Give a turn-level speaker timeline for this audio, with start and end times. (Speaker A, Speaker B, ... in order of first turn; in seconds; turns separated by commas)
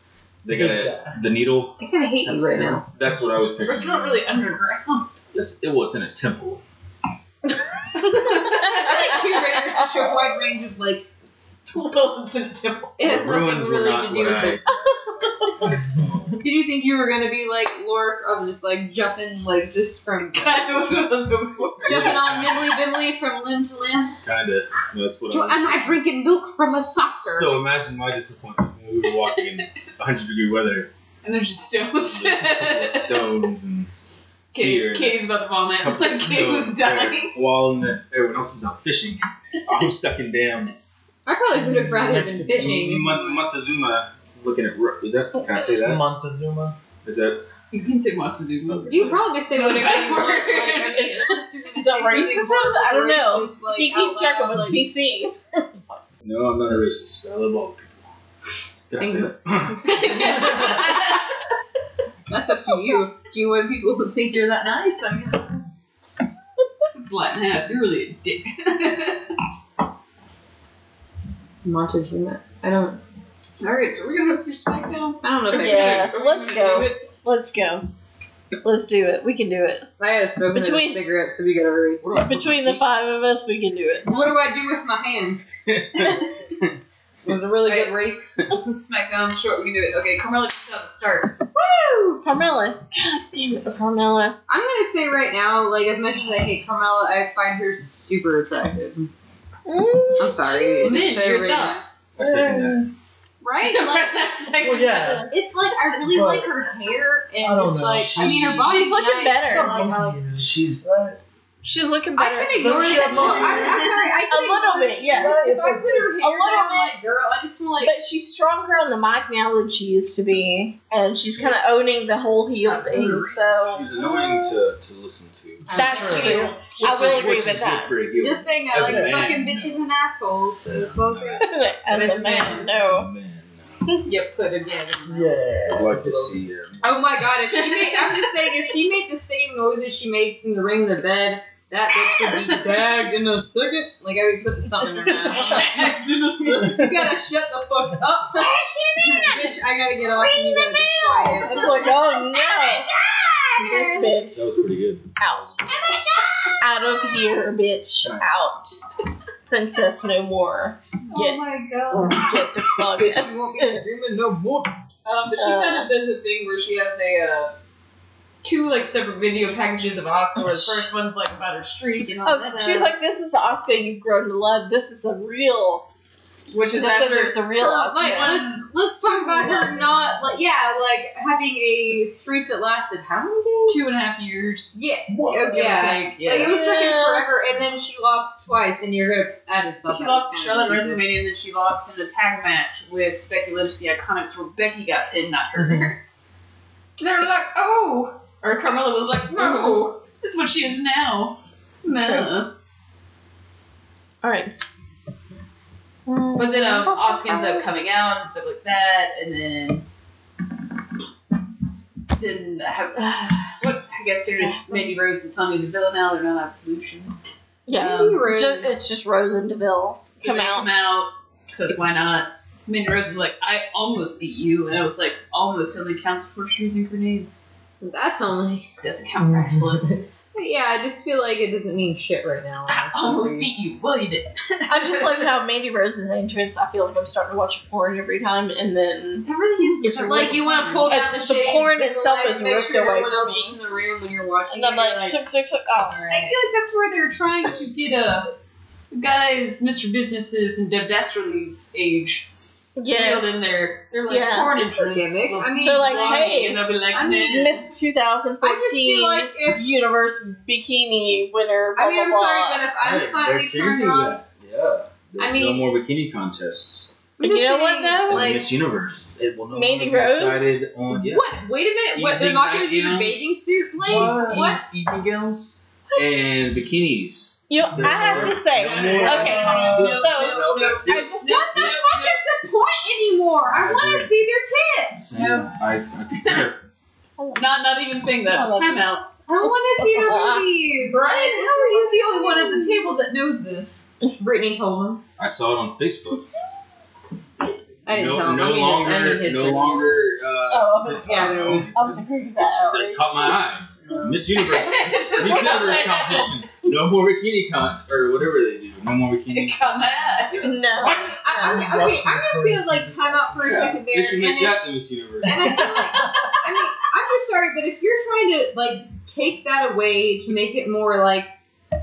Speaker A: 0.4-4.2, Speaker B: 0.5-1.2, Speaker C: 1.8-2.8, Speaker B: 2.6-3.2, Speaker D: 3.5-5.1, Speaker A: 5.3-6.6, Speaker C: 8.0-11.1, Speaker D: 8.0-9.4, Speaker D: 11.7-13.0, Speaker C: 13.0-14.7, Speaker A: 13.0-15.0, Speaker A: 15.6-16.4, Speaker B: 15.7-15.9, Speaker C: 16.4-21.1, Speaker D: 20.3-22.2, Speaker C: 21.8-24.2, Speaker A: 21.8-22.8, Speaker A: 24.2-26.0, Speaker C: 25.3-27.6, Speaker A: 26.6-30.9, Speaker D: 31.2-33.5, Speaker A: 32.1-33.9, Speaker D: 34.5-37.4, Speaker A: 34.5-35.2, Speaker A: 35.8-40.7, Speaker C: 41.2-43.4, Speaker B: 41.5-43.0, Speaker A: 42.5-46.1, Speaker B: 45.7-46.8, Speaker A: 47.0-47.5, Speaker D: 47.7-51.2, Speaker C: 48.9-54.9, Speaker E: 50.8-56.0, Speaker A: 56.2-58.1, Speaker A: 58.9-60.4, Speaker C: 59.0-59.4, Speaker D: 59.8-61.3, Speaker C: 59.9-60.7, Speaker C: 62.3-65.6, Speaker D: 66.9-69.3, Speaker C: 71.6-73.0, Speaker D: 73.6-77.0, Speaker C: 75.2-76.1, Speaker E: 75.5-77.8, Speaker E: 78.6-79.9, Speaker C: 80.0-82.0, Speaker E: 80.5-81.0, Speaker A: 82.0-82.8, Speaker E: 82.1-84.2, Speaker C: 84.1-85.5, Speaker A: 85.7-86.7, Speaker D: 86.0-86.3, Speaker C: 87.2-88.5, Speaker D: 87.7-88.0, Speaker D: 88.7-91.4, Speaker C: 91.5-92.2, Speaker E: 92.2-94.4, Speaker C: 94.5-99.1, Speaker E: 99.7-101.2, Speaker C: 100.2-101.8, Speaker D: 100.8-102.0, Speaker A: 102.2-102.8, Speaker B: 102.2-102.8, Speaker E: 102.3-102.7, Speaker C: 103.4-104.3, Speaker D: 103.6-105.3, Speaker B: 104.6-105.3, Speaker C: 105.3-110.3, Speaker B: 106.0-106.5, Speaker B: 107.4-108.3, Speaker A: 107.8-109.0, Speaker E: 108.5-109.9, Speaker B: 109.4-111.2, Speaker A: 110.4-110.8, Speaker E: 111.6-113.4, Speaker C: 112.1-117.9, Speaker B: 112.5-113.9, Speaker A: 113.2-113.6, Speaker D: 113.2-113.9, Speaker E: 114.0-116.9, Speaker E: 117.8-124.4, Speaker D: 121.3-123.5, Speaker A: 123.6-125.7, Speaker B: 125.6-126.4, Speaker D: 125.7-127.5, Speaker E: 125.7-127.9, Speaker C: 125.7-126.2, Speaker A: 126.8-129.8, Speaker C: 128.2-131.5, Speaker B: 128.7-129.4, Speaker A: 130.7-134.0, Speaker E: 131.4-133.1, Speaker D: 131.9-132.7, Speaker D: 134.0-135.5, Speaker B: 135.1-136.8, Speaker A: 135.7-137.0, Speaker C: 136.8-145.9, Speaker D: 137.5-138.5, Speaker D: 142.1-142.8, Speaker D: 145.2-147.1, Speaker C: 146.5-154.2, Speaker E: 148.3-152.9, Speaker E: 153.6-154.5, Speaker A: 154.3-155.6, Speaker E: 155.2-155.6, Speaker C: 155.7-156.5, Speaker E: 156.6-158.8, Speaker A: 158.0-158.3, Speaker E: 159.5-161.4, Speaker D: 161.1-162.3, Speaker E: 161.9-163.8, Speaker C: 162.9-164.7, Speaker D: 165.0-167.5, Speaker E: 165.3-165.9, Speaker D: 168.4-172.9, Speaker E: 170.4-170.9, Speaker E: 172.2-175.9, Speaker D: 176.5-180.1, Speaker E: 176.7-178.4, Speaker C: 177.6-183.9, Speaker E: 179.4-179.9, Speaker D: 183.7-184.9, Speaker C: 184.7-191.1, Speaker B: 185.1-185.8, Speaker D: 185.5-186.6, Speaker E: 186.3-187.3, Speaker D: 189.9-196.0, Speaker B: 195.6-195.9, Speaker D: 197.0-202.5, Speaker E: 199.3-199.8, Speaker E: 201.9-202.3, Speaker E: 204.2-204.5, Speaker E: 206.1-207.7, Speaker D: 206.3-209.8, Speaker D: 212.1-217.2, Speaker E: 214.5-214.9, Speaker E: 217.7-220.7, Speaker C: 217.7-218.8, Speaker D: 220.2-227.4, Speaker C: 227.8-228.7, Speaker D: 228.8-229.9, Speaker B: 229.2-230.0, Speaker C: 230.3-233.5, Speaker D: 232.7-235.3, Speaker E: 234.7-239.3, Speaker D: 239.3-240.9, Speaker C: 239.3-245.2, Speaker E: 239.8-243.6, Speaker E: 244.5-246.0, Speaker C: 245.8-246.4, Speaker D: 246.1-248.3, Speaker D: 248.9-252.3, Speaker E: 252.8-253.5, Speaker D: 252.9-257.6, Speaker E: 254.1-254.6, Speaker C: 254.6-257.6, Speaker E: 255.6-262.6, Speaker C: 258.4-259.7, Speaker C: 261.8-264.2, Speaker A: 262.8-266.9, Speaker C: 265.2-265.7, Speaker E: 267.2-268.4, Speaker C: 267.2-268.5, Speaker A: 268.1-271.3, Speaker E: 269.5-270.6, Speaker C: 271.0-274.7, Speaker A: 271.9-281.1, Speaker E: 277.5-281.8, Speaker B: 277.7-279.8, Speaker D: 278.4-282.2, Speaker C: 281.2-285.1, Speaker A: 283.6-284.1, Speaker A: 285.1-286.6, Speaker D: 285.1-285.5, Speaker D: 286.1-286.5, Speaker E: 287.2-287.5, Speaker D: 287.3-289.1, Speaker E: 288.0-288.9, Speaker C: 289.3-292.7, Speaker E: 289.4-290.5, Speaker D: 290.8-293.9, Speaker C: 294.2-295.0, Speaker A: 295.2-296.3, Speaker C: 297.9-300.0, Speaker A: 297.9-311.1, Speaker E: 300.5-303.4, Speaker C: 301.0-301.9, Speaker C: 303.9-304.1, Speaker D: 304.3-306.4, Speaker D: 309.3-310.7, Speaker E: 310.4-311.7, Speaker C: 310.8-314.6, Speaker B: 311.3-313.8, Speaker A: 313.4-315.8, Speaker C: 315.2-321.3, Speaker B: 315.4-316.4